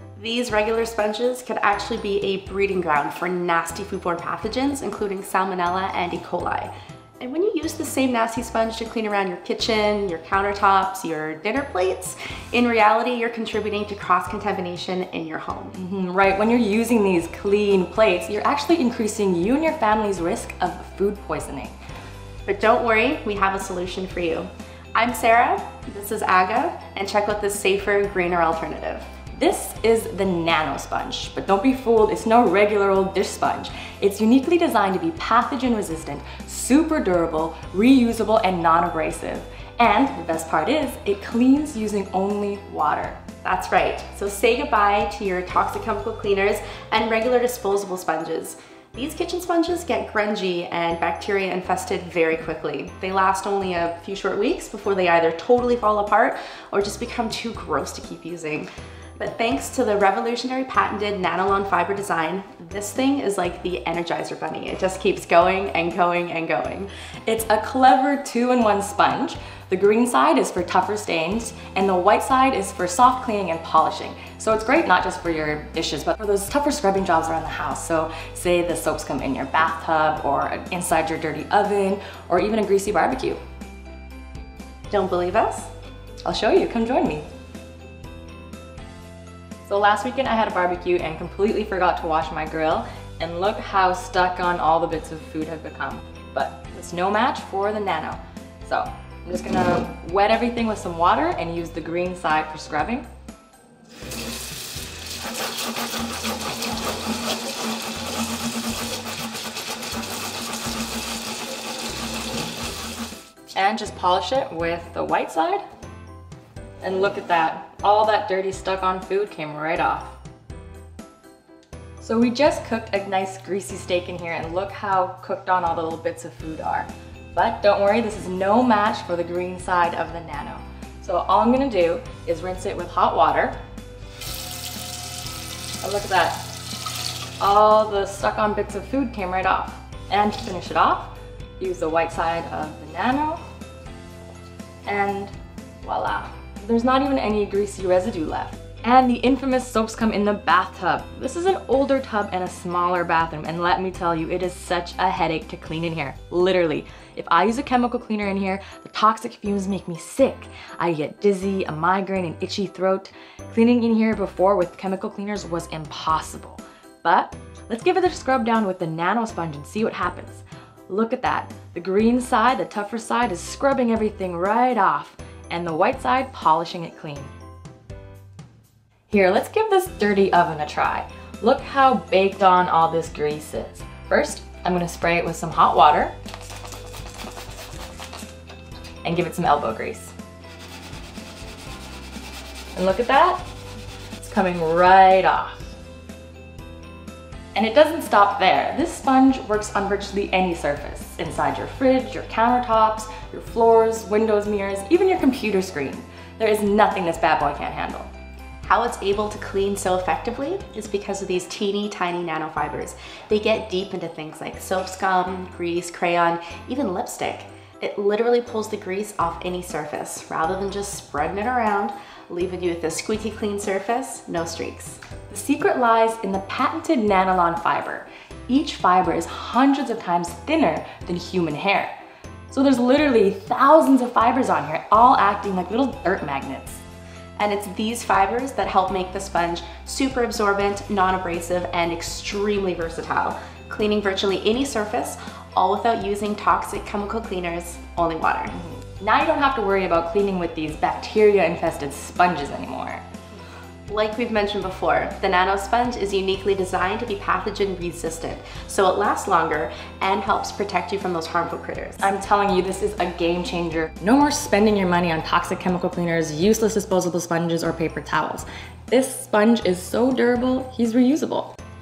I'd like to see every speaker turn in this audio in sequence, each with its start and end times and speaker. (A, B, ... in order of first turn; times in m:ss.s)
0:00.2-0:15.8 A
0:15.7-0:21.8 B
0:22.4-0:29.1 A
0:29.3-0:43.2 B
0:43.4-1:06.9 A
1:07.2-1:23.4 B
1:24.9-1:25.7 A
1:26.2-1:27.3 B
1:29.7-1:43.0 B
1:53.5-1:55.6 B
1:56.8-2:00.2 B
2:02.0-2:13.6 B
2:15.8-2:16.4 B
2:17.4-2:23.4 B
2:24.8-2:57.3 B
2:59.1-3:06.1 B
3:09.0-3:10.1 B
3:12.7-3:13.4 B
3:14.2-3:15.8 B
3:17.5-3:28.1 B
3:28.6-3:45.0 A
3:45.3-3:51.9 B
3:52.5-3:56.8 B
3:57.4-4:08.6 A
4:08.5-4:13.0 B
4:13.9-4:22.0 A
4:22.0-4:31.5 B